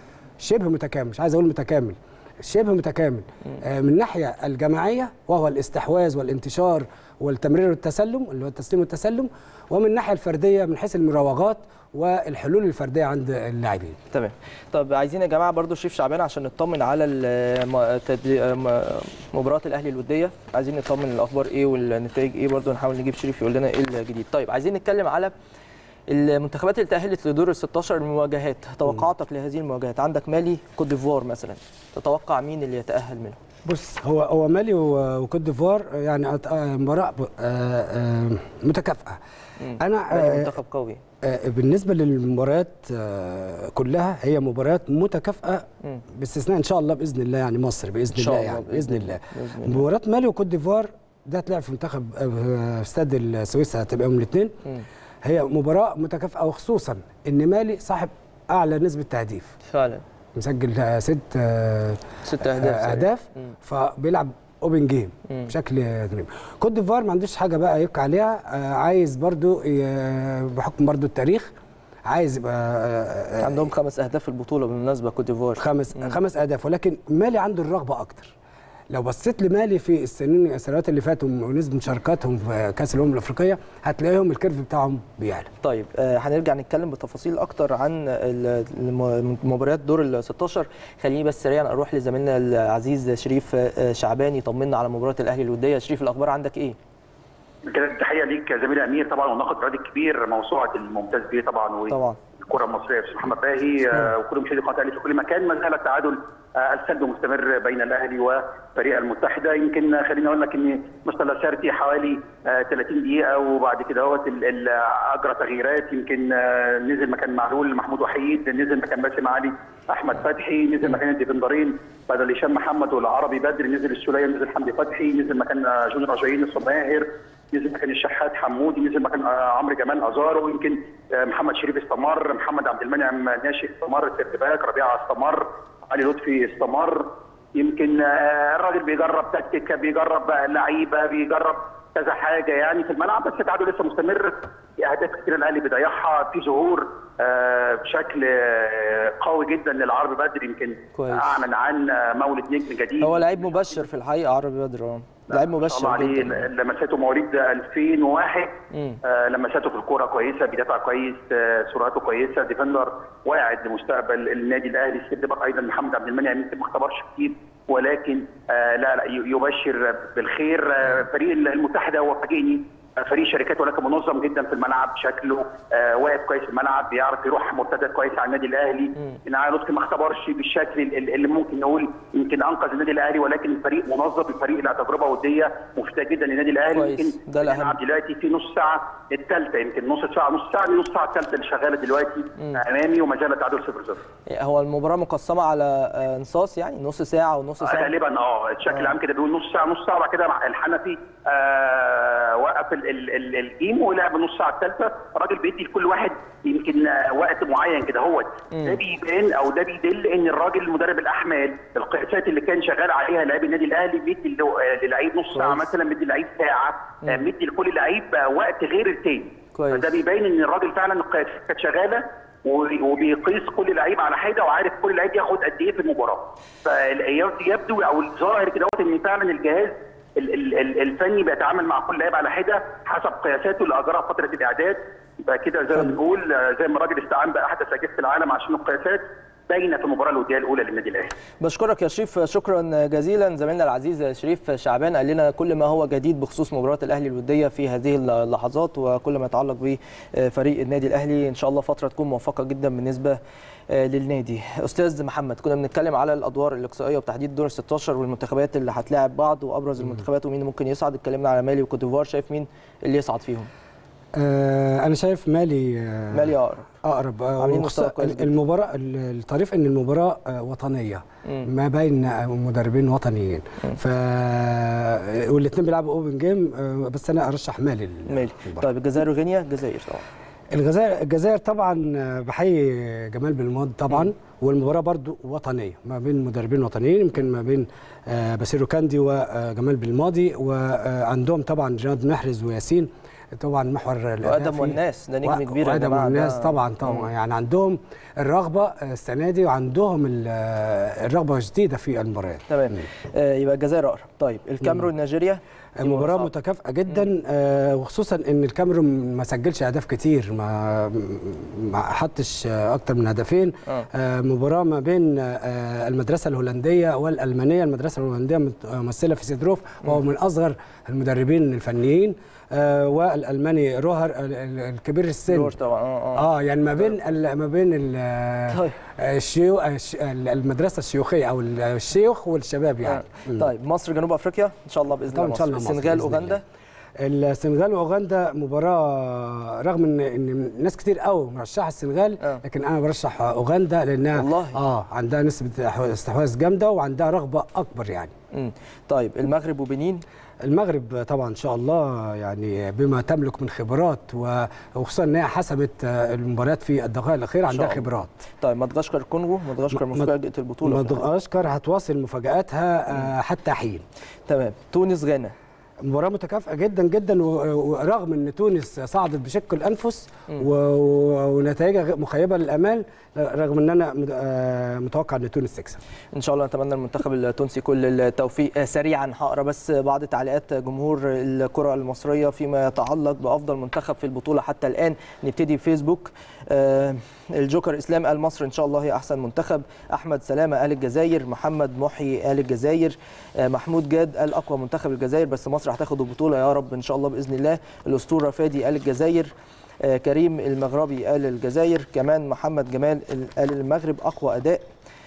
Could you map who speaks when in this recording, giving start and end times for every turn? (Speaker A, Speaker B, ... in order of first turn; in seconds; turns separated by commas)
Speaker A: 0.4-14.0, Speaker B: 14.1-25.3, Speaker B: 26.1-33.4, Speaker A: 33.6-39.2, Speaker B: 39.6-41.0, Speaker A: 39.8-40.5, Speaker A: 41.2-54.6, Speaker B: 48.1-49.8, Speaker A: 55.2-59.5, Speaker B: 59.6-60.0, Speaker A: 60.3-71.5, Speaker B: 62.2-63.5, Speaker A: 72.0-73.7, Speaker B: 73.4-76.1, Speaker A: 75.6-78.3, Speaker A: 78.9-85.5, Speaker B: 85.6-96.8, Speaker C: 97.7-153.7, Speaker B: 101.9-102.2, Speaker B: 150.9-151.4, Speaker B: 153.0-156.5, Speaker C: 155.3-194.0, Speaker B: 158.7-159.0, Speaker B: 186.7-187.8, Speaker B: 194.3-197.9, Speaker C: 197.6-241.1, Speaker B: 208.5-208.8, Speaker B: 215.3-215.6, Speaker B: 219.5-219.9, Speaker B: 241.4-253.2, Speaker B: 253.7-263.5, Speaker A: 264.1-266.3, Speaker B: 266.1-266.7, Speaker A: 266.8-278.6, Speaker B: 267.4-268.4, Speaker B: 278.1-280.0, Speaker A: 280.5-302.8, Speaker B: 294.2-297.1, Speaker B: 302.5-306.3, Speaker A: 305.8-325.5, Speaker B: 325.3-326.2, Speaker A: 326.1-333.5, Speaker B: 328.5-328.8, Speaker B: 332.9-336.4, Speaker A: 335.1-336.4, Speaker A: 337.0-348.1, Speaker B: 344.1-344.6, Speaker B: 348.3-350.0, Speaker A: 350.4-358.1, Speaker B: 357.5-357.9, Speaker B: 358.4-361.0, Speaker A: 359.7-360.1, Speaker A: 360.6-363.8, Speaker B: 364.3-365.3, Speaker A: 365.8-375.8, Speaker B: 376.1-404.6